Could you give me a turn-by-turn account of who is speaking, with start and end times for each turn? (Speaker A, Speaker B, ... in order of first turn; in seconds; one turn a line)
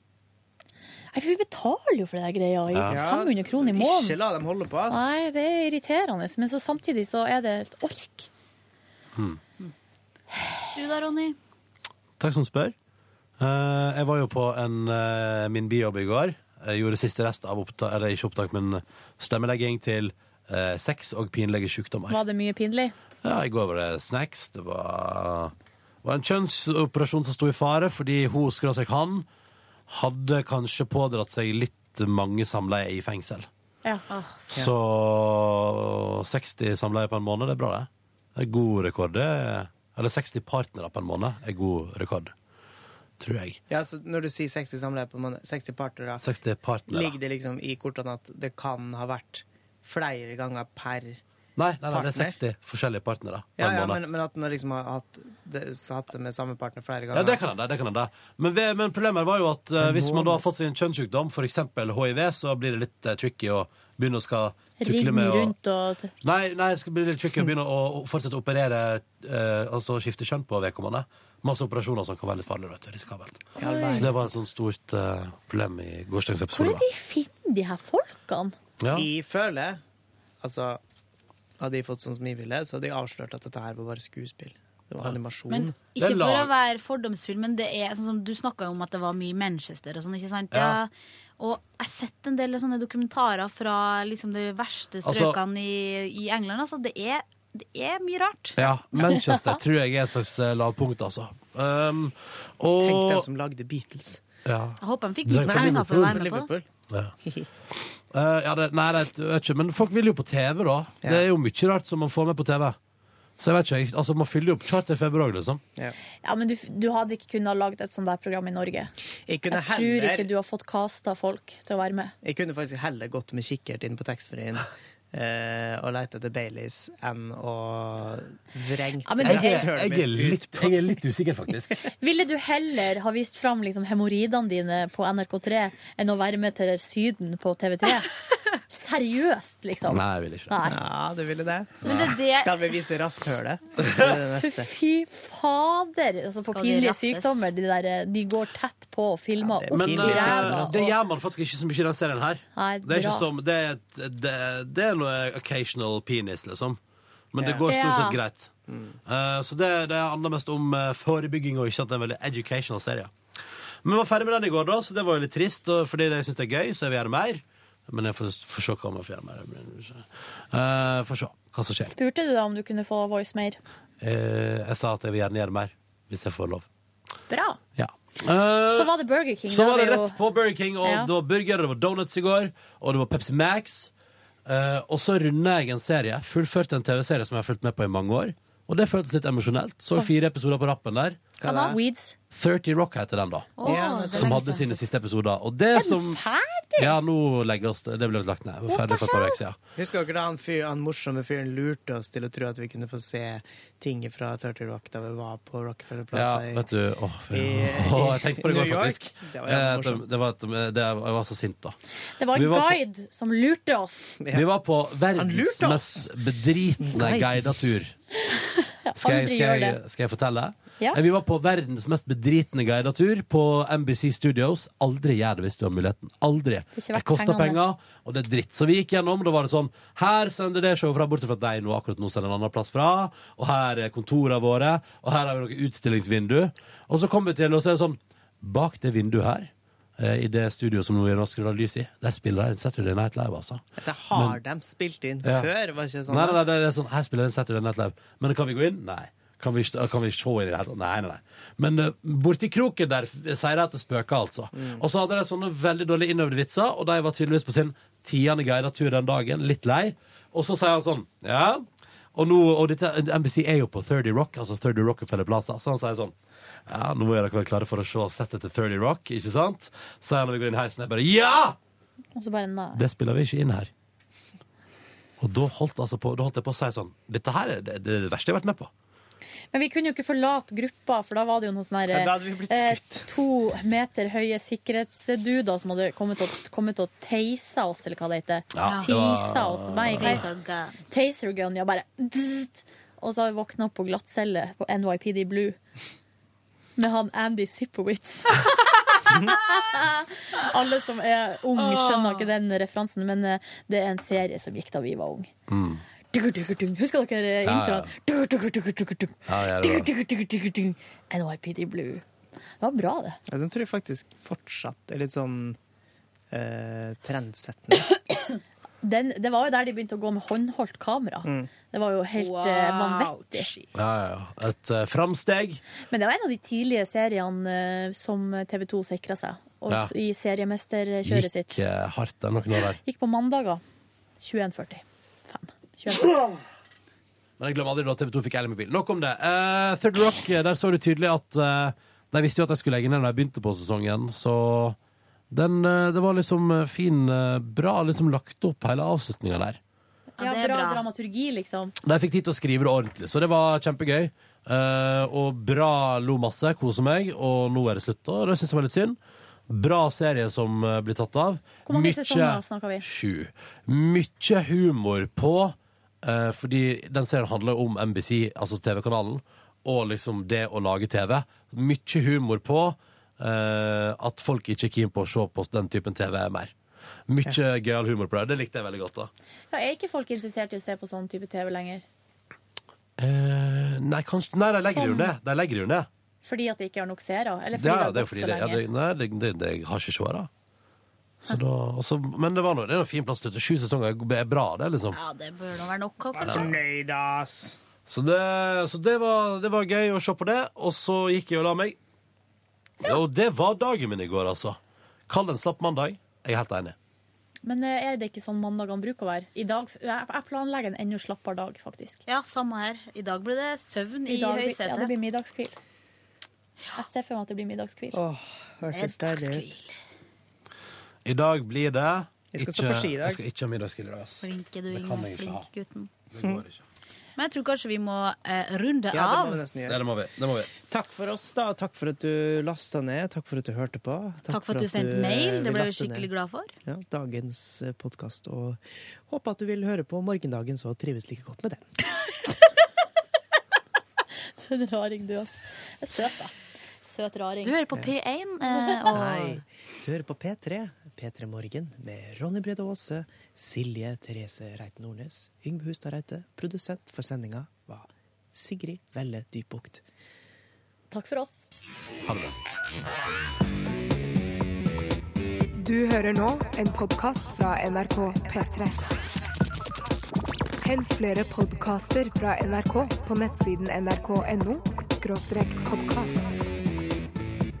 Speaker A: 1.1-4.2
Speaker B: 2.7-3.0
Speaker C: 2.9-5.0
Speaker A: 4.9-8.3
Speaker B: 9.1-9.4
Speaker D: 10.7-11.4
Speaker B: 12.2-12.7
Speaker B: 13.4-22.2
Speaker A: 22.1-22.9
Speaker B: 23.2-25.5
Speaker B: 26.0-29.3
Speaker B: 29.9-33.5
Speaker D: 34.1-34.4
Speaker B: 34.5-42.3
Speaker B: 43.2-43.6
Speaker C: 43.7-46.2
Speaker B: 46.2-47.1
Speaker C: 46.9-51.2
Speaker B: 51.5-54.0
Speaker C: 51.9-52.4
Speaker C: 53.6-57.4
Speaker B: 57.1-65.5
Speaker C: 59.8-60.4
Speaker A: 64.8-66.1
Speaker B: 66.2-76.8
Speaker C: 73.6-74.2
Speaker A: 73.6-74.1
Speaker A: 76.5-78.5
Speaker B: 78.8-79.1
Speaker C: 78.9-79.8
Speaker C: 80.4-80.8
Speaker C: 81.6-85.8
Speaker D: 85.5-98.6
Speaker B: 86.0-86.5
Speaker B: 90.5-90.8
Speaker B: 95.0-95.4
Speaker B: 98.6-103.2
Speaker C: 102.8-104.2
Speaker B: 104.4-106.2
Speaker D: 104.8-106.5
Speaker C: 105.3-106.7
Speaker B: 108.1-112.8
Speaker B: 113.4-115.6
Speaker A: 116.2-118.9
Speaker C: 119.3-120.3
Speaker A: 119.5-122.1
Speaker C: 122.2-130.8
Speaker A: 129.0-129.8
Speaker B: 129.2-131.8
Speaker A: 132.0-138.1
Speaker A: 138.7-140.8
Speaker B: 139.9-140.6
Speaker C: 140.6-144.7
Speaker D: 141.8-142.5
Speaker B: 141.9-142.1
Speaker A: 144.4-150.9
Speaker D: 146.5-147.5
Speaker C: 149.4-150.7
Speaker B: 149.7-156.8
Speaker A: 152.5-153.3
Speaker B: 157.3-158.5
Speaker C: 157.4-157.6
Speaker A: 157.7-158.2
Speaker C: 158.7-159.0
Speaker B: 159.1-163.1
Speaker B: 163.8-171.9
Speaker A: 171.8-173.6
Speaker B: 174.0-176.7
Speaker A: 177.3-177.6
Speaker B: 177.8-178.9
Speaker A: 178.7-180.2
Speaker B: 179.5-183.9
Speaker A: 180.8-181.1
Speaker B: 184.4-191.4
Speaker C: 191.4-191.8
Speaker D: 191.4-191.8
Speaker A: 191.6-192.1
Speaker B: 192.3-196.2
Speaker D: 193.6-194.8
Speaker C: 193.6-194.5
Speaker A: 195.7-197.0
Speaker B: 196.8-199.6
Speaker A: 198.7-199.4
Speaker C: 199.8-206.7
Speaker B: 206.1-211.7
Speaker C: 207.3-210.1
Speaker A: 212.2-214.2
Speaker B: 212.3-212.8
Speaker C: 214.2-214.4
Speaker B: 214.3-217.9
Speaker C: 215.1-216.1
Speaker C: 216.8-217.6
Speaker A: 218.3-219.8
Speaker B: 218.9-244.4
Speaker A: 226.7-227.6
Speaker C: 243.8-246.4
Speaker B: 245.2-245.5
Speaker B: 246.1-266.1
Speaker C: 254.5-254.8
Speaker B: 266.6-271.6
Speaker A: 272.1-272.8
Speaker B: 272.8-273.7
Speaker B: 275.2-278.7
Speaker A: 279.5-290.2
Speaker C: 281.9-283.1
Speaker B: 288.5-290.2
Speaker D: 288.6-288.9
Speaker D: 289.9-290.8
Speaker A: 290.9-295.6
Speaker A: 296.8-305.3
Speaker D: 301.5-302.3
Speaker B: 305.5-305.8
Speaker A: 306.1-312.0
Speaker B: 307.4-307.9
Speaker B: 309.3-309.9
Speaker A: 312.6-313.2
Speaker C: 313.3-315.6
Speaker C: 316.3-317.9
Speaker A: 318.8-323.5
Speaker C: 321.2-321.5
Speaker D: 322.1-323.7
Speaker B: 323.7-325.6
Speaker A: 325.9-331.6
Speaker B: 331.0-332.8
Speaker A: 332.8-333.6
Speaker A: 334.2-336.2
Speaker B: 337.4-344.8
Speaker B: 345.3-349.6
Speaker D: 350.2-350.8
Speaker A: 350.2-351.7
Speaker B: 351.8-359.0
Speaker B: 359.5-376.5
Speaker A: 361.6-362.8
Speaker B: 377.1-379.1
Speaker A: 379.5-381.8
Speaker B: 383.0-385.9
Speaker A: 384.7-385.1
Speaker A: 386.2-388.6
Speaker B: 387.5-390.3
Speaker B: 391.2-395.0
Speaker D: 394.9-396.6
Speaker C: 396.1-397.6
Speaker B: 397.9-401.8
Speaker B: 402.8-404.6
Speaker B: 405.1-406.7
Speaker A: 407.4-412.0
Speaker D: 412.1-414.9
Speaker A: 414.1-415.6
Speaker A: 416.8-418.0
Speaker C: 417.9-419.4
Speaker D: 418.7-419.7
Speaker B: 421.0-425.5
Speaker C: 422.3-423.2
Speaker D: 424.2-425.9
Speaker B: 426.1-426.6
Speaker D: 427.2-429.4
Speaker C: 428.9-429.8
Speaker B: 429.7-430.5
Speaker C: 430.7-436.1
Speaker D: 434.3-436.5
Speaker C: 436.6-441.7
Speaker A: 444.4-447.5
Speaker D: 447.4-449.4
Speaker A: 448.5-448.8
Speaker C: 448.9-459.8
Speaker A: 460.9-461.4
Speaker B: 462.0-462.4
Speaker E: 465.6-468.9
Speaker E: 470.6-476.4